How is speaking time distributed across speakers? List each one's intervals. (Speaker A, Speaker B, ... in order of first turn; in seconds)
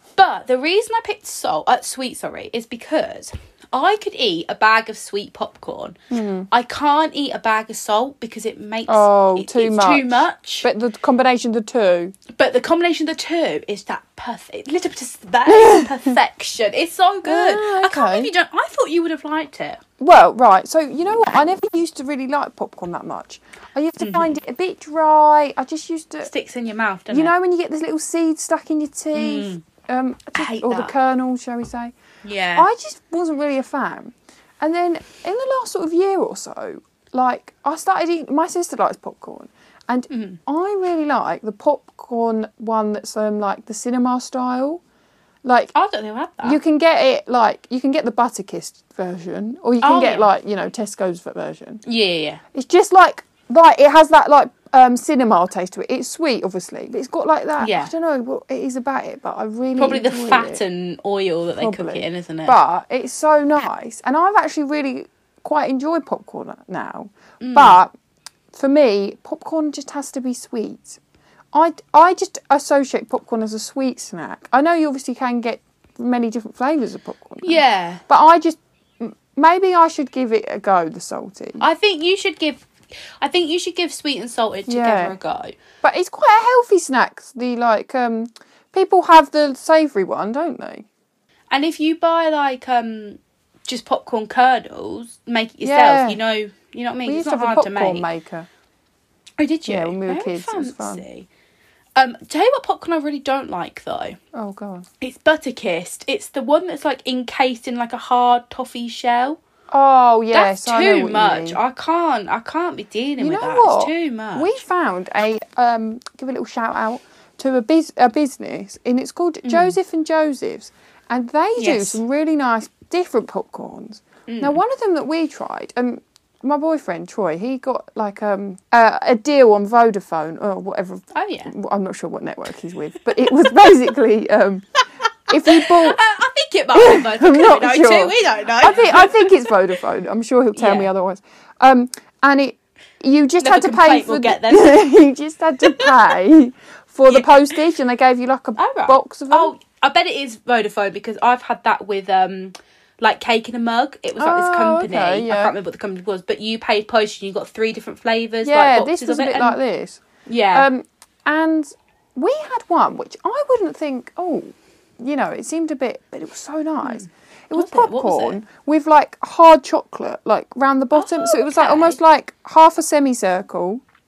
Speaker A: 0.2-6.0, 6.5-10.7, 12.3-19.8, 24.0-24.3, 26.2-27.3, 29.1-29.6, 30.3-30.9, 32.2-32.7, 40.1-40.4, 45.7-46.6, 49.8-50.3, 51.8-52.4, 57.6-57.9, 59.8-62.6, 67.4-67.8, 77.4-78.0, 81.6-82.7, 83.2-85.5, 91.5-98.0, 99.4-101.3, 102.0-104.2, 105.0-109.4, 110.3-114.5, 119.4-119.8, 121.6-122.0, 124.3-124.6, 131.1-131.5, 135.4-139.5, 140.5-140.9, 143.4-144.8, 145.6-145.9, 147.1-147.3, 148.6-159.6, 160.2-160.7, 166.8-168.4, 170.9-172.0
Speaker B: 6.1-6.5, 8.9-12.1, 15.5-16.1, 17.2-18.3, 20.0-26.3, 27.1-31.9, 32.5-44.8, 45.4-45.7, 46.4-51.8, 52.5-60.6, 61.6-67.9, 68.5-71.0, 71.5-81.6, 84.7-85.2, 85.8-90.8, 95.6-96.2, 97.0-98.5, 99.7-101.0, 104.3-104.8, 109.7-111.6, 113.2-134.7, 135.3-136.0, 136.7-149.5, 154.2-155.5, 158.4-173.8